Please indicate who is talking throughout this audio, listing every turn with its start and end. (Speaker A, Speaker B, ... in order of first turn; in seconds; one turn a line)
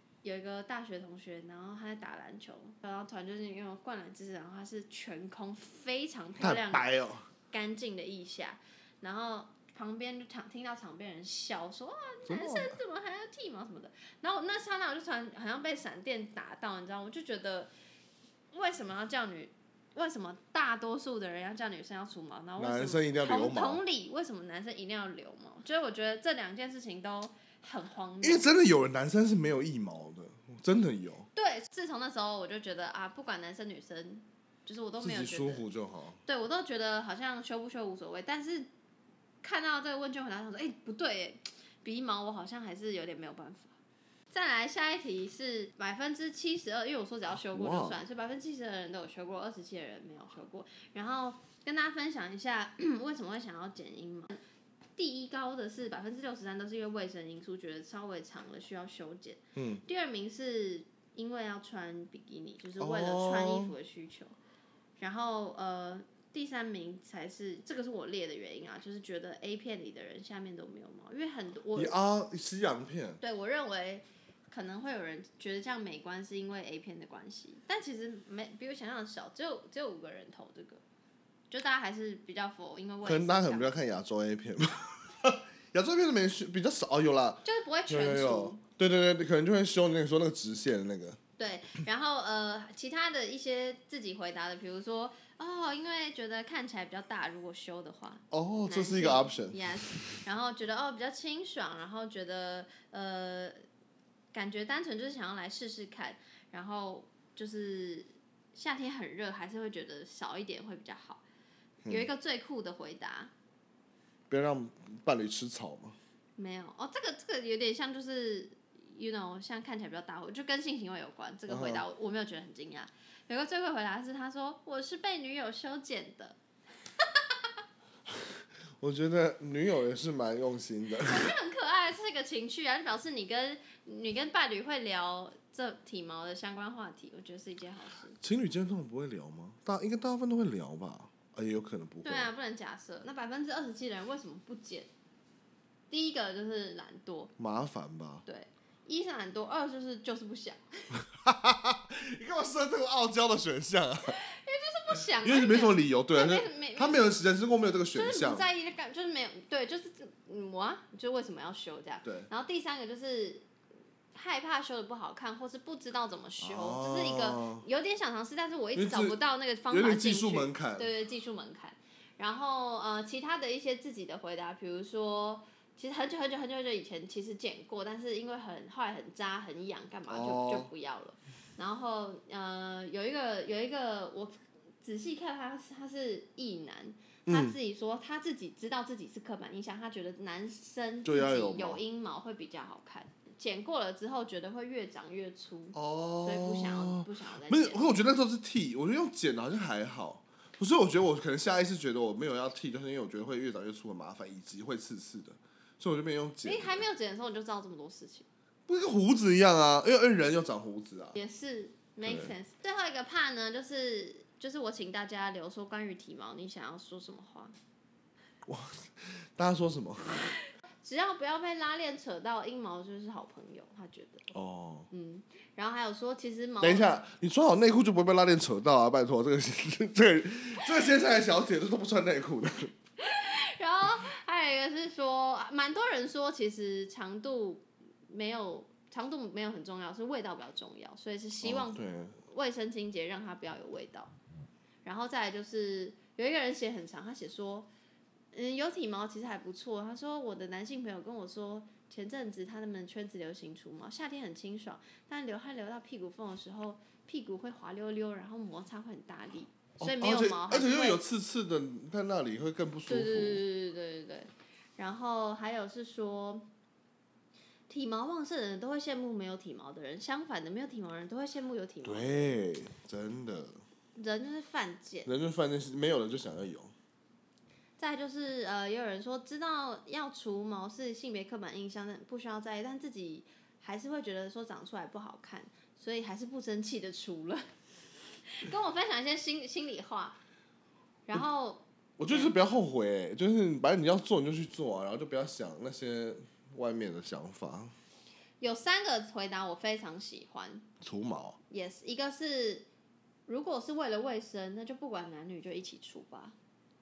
Speaker A: 0.2-6.9
Speaker B: 6.4-7.3
Speaker A: 7.5-17.7
Speaker B: 12.2-12.8
Speaker A: 18.5-28.4
Speaker B: 22.6-23.8
Speaker B: 28.2-31.3
Speaker A: 31.3-35.6
Speaker B: 35.0-36.2
Speaker A: 36.2-38.7
Speaker A: 39.4-43.7
Speaker A: 44.3-54.4
Speaker B: 47.5-48.0
Speaker A: 55.0-64.3
Speaker B: 59.5-59.8
Speaker B: 62.8-63.7
Speaker A: 65.0-71.9
Speaker B: 71.7-73.2
Speaker A: 73.2-80.8
Speaker A: 81.5-83.7
Speaker B: 83.0-91.2
Speaker A: 87.4-88.6
Speaker A: 91.4-103.6
Speaker B: 98.3-100.2
Speaker A: 104.3-111.2
Speaker A: 111.9-113.3
Speaker B: 114.3-116.0
Speaker A: 116.3-126.4
Speaker B: 121.5-121.8
Speaker A: 127.0-127.5
Speaker B: 128.8-131.3
Speaker A: 131.0-138.2
Speaker B: 138.2-142.3
Speaker A: 142.0-144.9
Speaker A: 145.9-147.3
Speaker B: 147.4-148.2
Speaker A: 148.2-150.9
Speaker B: 151.0-154.2
Speaker A: 154.1-157.1
Speaker B: 155.2-158.4
Speaker A: 157.9-163.5
Speaker A: 164.1-197.9
Speaker B: 166.4-167.6
Speaker B: 168.7-169.2
Speaker B: 169.7-170.9
Speaker B: 180.1-180.7
Speaker B: 187.3-187.6
Speaker B: 191.0-191.8
Speaker B: 195.7-206.8
Speaker A: 206.4-208.2
Speaker B: 208.7-211.2
Speaker A: 211.1-217.5
Speaker B: 212.0-212.3
Speaker B: 218.4-220.3
Speaker A: 220.8-224.2
Speaker B: 224.3-224.9
Speaker A: 224.9-226.9
Speaker B: 226.6-232.7
Speaker A: 233.0-244.1
Speaker B: 241.4-242.2
Speaker A: 244.8-247.7
Speaker A: 248.3-261.0
Speaker B: 259.8-263.4
Speaker A: 262.9-266.5
Speaker A: 267.7-272.3
Speaker B: 271.8-273.6
Speaker A: 273.9-275.1
Speaker B: 275.0-276.7
Speaker A: 277.8-287.5
Speaker A: 288.2-290.2
Speaker A: 291.1-292.3
Speaker B: 292.0-297.7
Speaker A: 298.4-300.7
Speaker B: 300.8-301.4
Speaker A: 301.5-302.7
Speaker A: 303.3-306.4